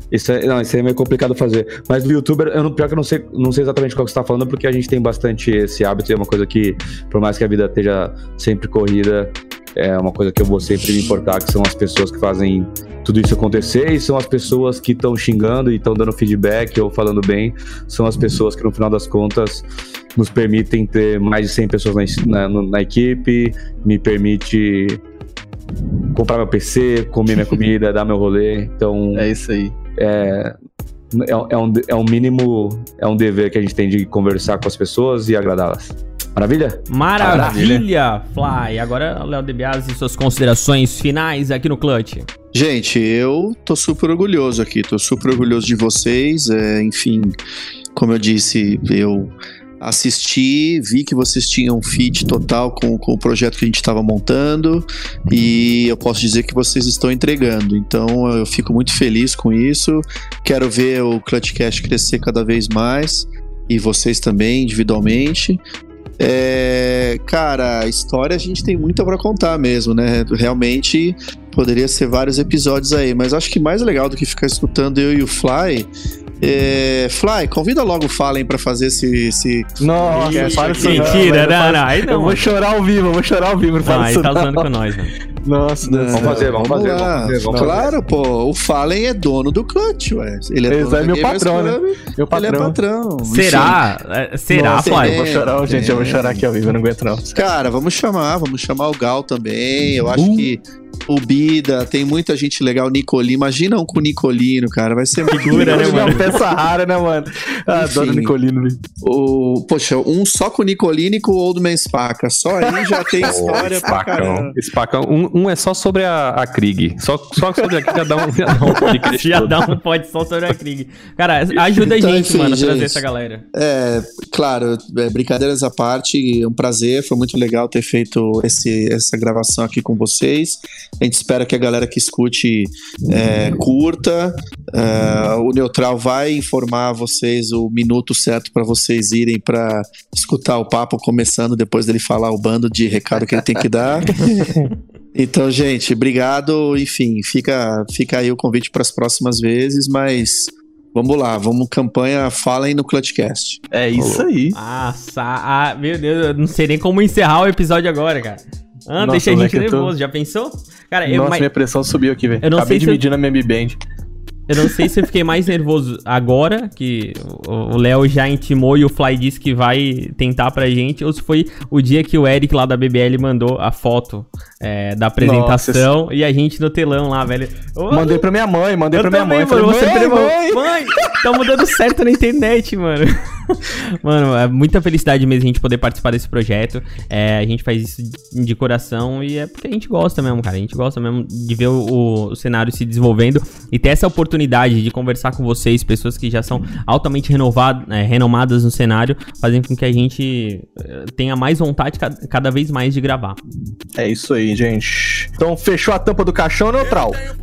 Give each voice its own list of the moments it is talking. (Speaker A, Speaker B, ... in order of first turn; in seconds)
Speaker A: 0.1-25.0, 26.1-29.3, 29.9-30.5, 31.1-37.6, 86.1-87.9
Speaker B: 29.1-29.7, 37.2-37.8, 79.8-84.7, 85.4-86.6, 87.5-87.9, 90.7-92.8, 94.5-97.4, 100.1-100.5, 105.4-108.8, 112.8-113.8, 153.7-154.6, 159.0-159.9, 161.1-163.8, 175.2-175.9, 177.9-181.1, 204.0-207.2
Speaker C: 36.9-42.3, 80.6-82.5, 83.8-85.1, 93.2-95.3, 105.3-106.3, 118.7-123.4, 154.5-161.5, 162.4-163.0, 164.5-178.3, 178.9-203.4
Speaker D: 42.5-47.4, 47.9-65.6, 66.2-75.9, 76.4-81.3, 85.8-93.8, 94.8-96.4, 97.3-106.3, 107.7-108.3, 109.0-114.5, 121.8-144.5, 145.1-153.6
Speaker E: 113.2-119.8